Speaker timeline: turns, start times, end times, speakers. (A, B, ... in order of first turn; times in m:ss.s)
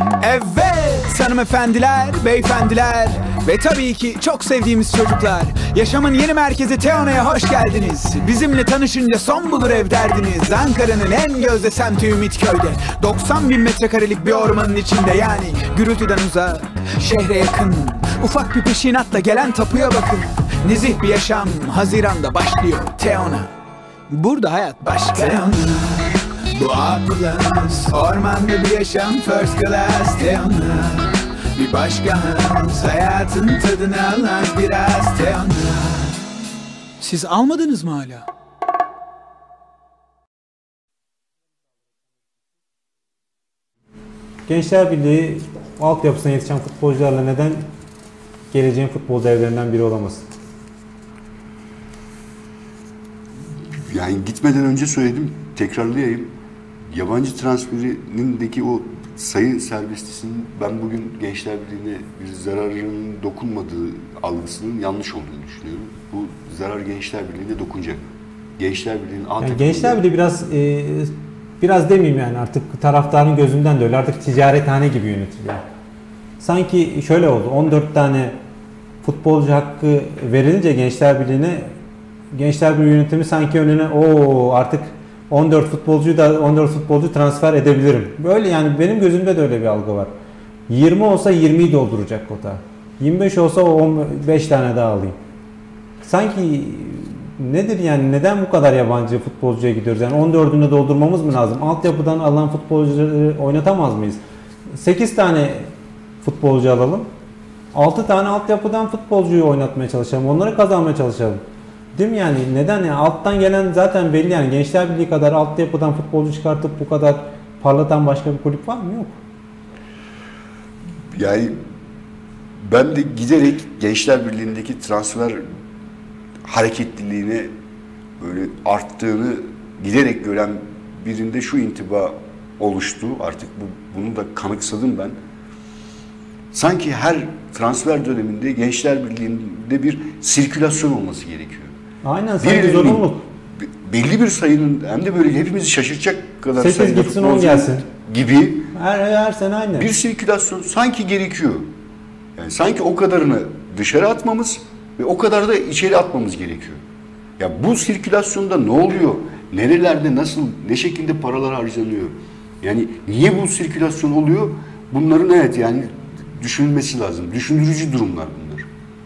0:00.2-0:23.5 A
0:24.1-0:36.2 A
0:37.0-0:38.3 A
0:44.5-0:47.6 B
0:48.5-0:50.3 B
0:53.7-0:56.3 C
0:56.9-1:08.0 C
1:08.6-1:10.0 C
1:09.4-1:15.6 B
1:16.4-1:18.4 B
1:19.0-1:21.7 B
1:22.3-1:30.1 B
1:30.7-1:35.2 B
1:36.0-1:44.2 B
1:44.7-1:45.6 B
1:46.2-1:47.1 B
1:47.7-1:51.4 B
1:51.9-1:59.2 B
2:01.1-2:01.6 C
2:02.6-2:05.5 C
2:06.4-2:07.5 C
2:08.2-2:15.2 C
2:16.5-2:21.7 C
2:22.0-2:23.2 B
2:22.4-2:28.7 C
2:26.6-2:27.8 B
2:28.7-2:29.9 B
2:29.7-2:31.7 C
2:32.4-2:36.8 C
2:37.4-2:48.7 C